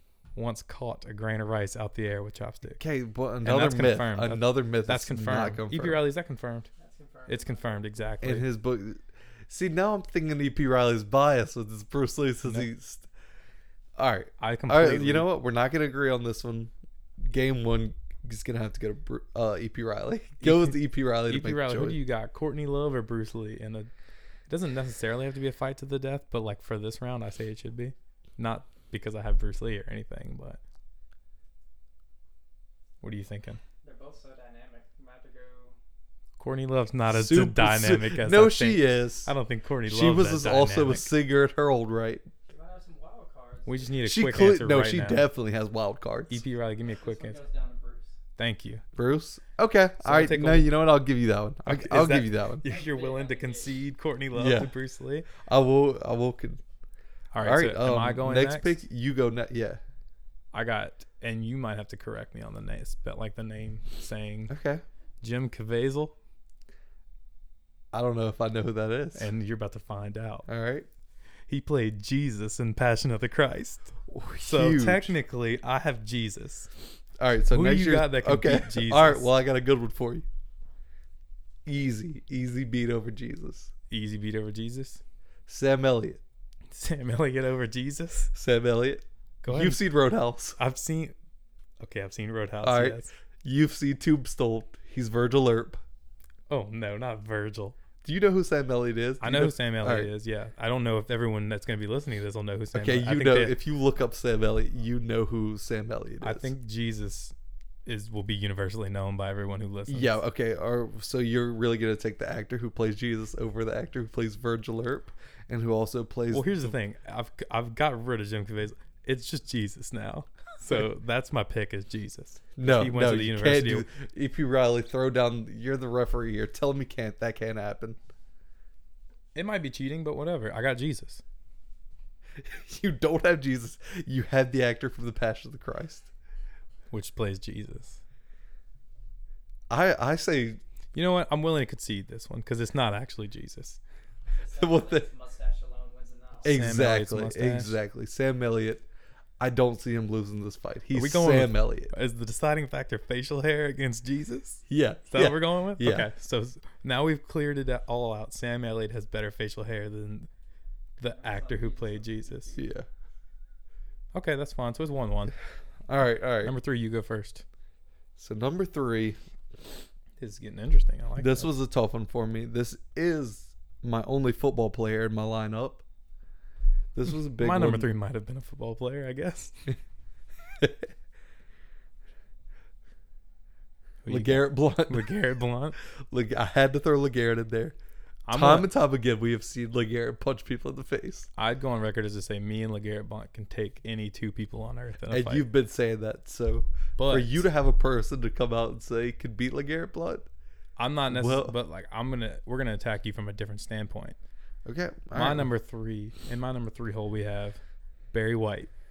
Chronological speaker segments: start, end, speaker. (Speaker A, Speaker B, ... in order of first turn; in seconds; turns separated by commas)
Speaker A: 0.3-2.8, Speaker B: 2.8-6.0, Speaker A: 3.4-6.7, Speaker C: 6.8-7.7, Speaker A: 7.3-8.4, Speaker B: 8.2-13.1, Speaker B: 14.0-22.0, Speaker A: 14.4-15.3, Speaker A: 20.4-23.9, Speaker A: 24.5-30.6, Speaker A: 33.0-33.6, Speaker C: 33.8-35.8, Speaker A: 36.4-41.1, Speaker B: 37.1-39.3, Speaker B: 39.8-42.2, Speaker C: 42.5-43.8, Speaker A: 43.6-45.3, Speaker B: 44.0-46.4, Speaker A: 46.3-47.4, Speaker C: 46.9-48.1, Speaker A: 48.4-48.8, Speaker B: 48.9-52.6, Speaker A: 50.0-50.7, Speaker A: 51.6-55.3, Speaker C: 52.6-53.8, Speaker B: 54.3-54.7, Speaker B: 55.4-56.6, Speaker A: 57.3-58.8, Speaker B: 57.4-59.8, Speaker A: 60.5-64.5, Speaker B: 64.5-64.8, Speaker A: 65.2-66.1, Speaker B: 67.9-69.3, Speaker A: 69.1-70.5, Speaker B: 70.5-70.9, Speaker A: 71.5-73.9, Speaker B: 74.1-75.1, Speaker A: 74.4-76.7, Speaker B: 77.2-80.2, Speaker A: 77.5-79.3, Speaker B: 81.7-83.7, Speaker A: 83.9-85.0, Speaker B: 85.5-86.2, Speaker A: 86.7-88.3, Speaker B: 88.3-90.6, Speaker A: 89.4-89.8, Speaker A: 90.6-91.1, Speaker A: 91.8-93.1, Speaker B: 92.6-95.8, Speaker A: 96.5-97.8, Speaker B: 98.0-100.1, Speaker A: 99.2-103.6, Speaker B: 102.7-106.5, Speaker A: 106.2-107.3, Speaker A: 107.8-110.2, Speaker B: 109.9-116.8, Speaker A: 116.3-123.9, Speaker B: 122.6-128.0, Speaker A: 129.3-131.2, Speaker B: 132.4-136.1, Speaker A: 136.9-138.0, Speaker B: 139.7-140.6, Speaker A: 140.9-143.8, Speaker C: 144.3-146.6, Speaker B: 144.6-145.1, Speaker B: 146.4-148.8, Speaker A: 146.5-147.7, Speaker B: 149.4-151.9, Speaker A: 150.9-160.3, Speaker B: 154.7-156.1, Speaker A: 161.0-162.6, Speaker C: 161.0-162.6, Speaker B: 162.5-162.8, Speaker A: 164.1-165.3, Speaker B: 165.9-166.5, Speaker A: 166.4-167.4, Speaker B: 168.2-169.2, Speaker A: 170.2-171.5, Speaker B: 171.2-175.8, Speaker B: 176.9-177.9, Speaker A: 177.3-179.6, Speaker B: 180.6-180.9, Speaker A: 184.0-185.8, Speaker B: 184.1-185.2, Speaker B: 186.1-187.8, Speaker A: 188.2-188.7, Speaker B: 188.3-191.3, Speaker A: 191.4-195.5, Speaker B: 195.1-200.2, Speaker A: 197.0-197.4, Speaker A: 200.8-204.2, Speaker B: 201.1-201.5, Speaker B: 204.7-205.5, Speaker A: 205.1-207.6, Speaker A: 208.1-208.7